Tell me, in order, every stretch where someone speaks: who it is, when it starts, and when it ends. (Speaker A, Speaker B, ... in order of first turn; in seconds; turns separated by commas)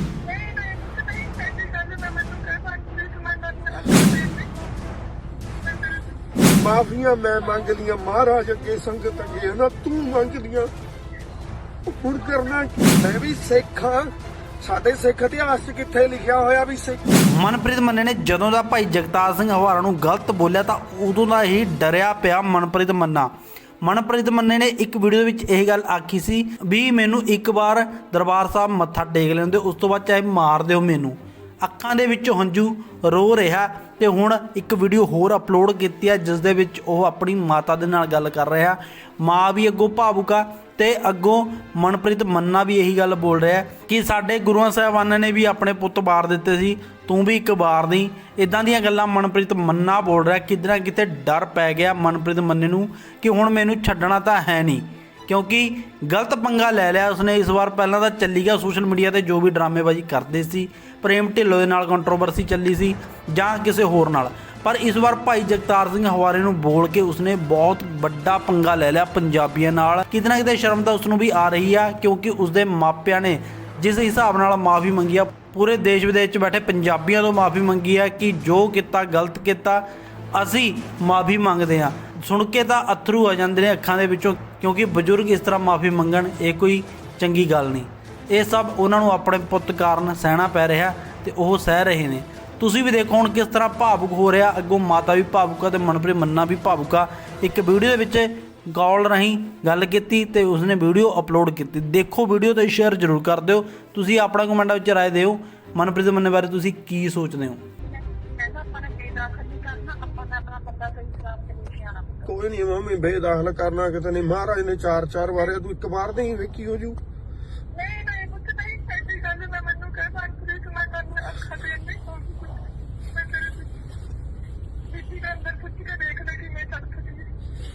Speaker A: 0.2-4.8, Speaker A: 5.5-6.4, Speaker B: 6.6-10.7, Speaker A: 7.4-7.8, Speaker A: 9.2-9.5, Speaker B: 11.9-17.0, Speaker A: 12.2-12.6, Speaker C: 17.3-23.3, Speaker C: 23.8-79.8, Speaker C: 80.3-107.6, Speaker A: 107.8-112.3, Speaker B: 112.2-117.0, Speaker A: 117.7-123.7, Speaker A: 124.9-127.3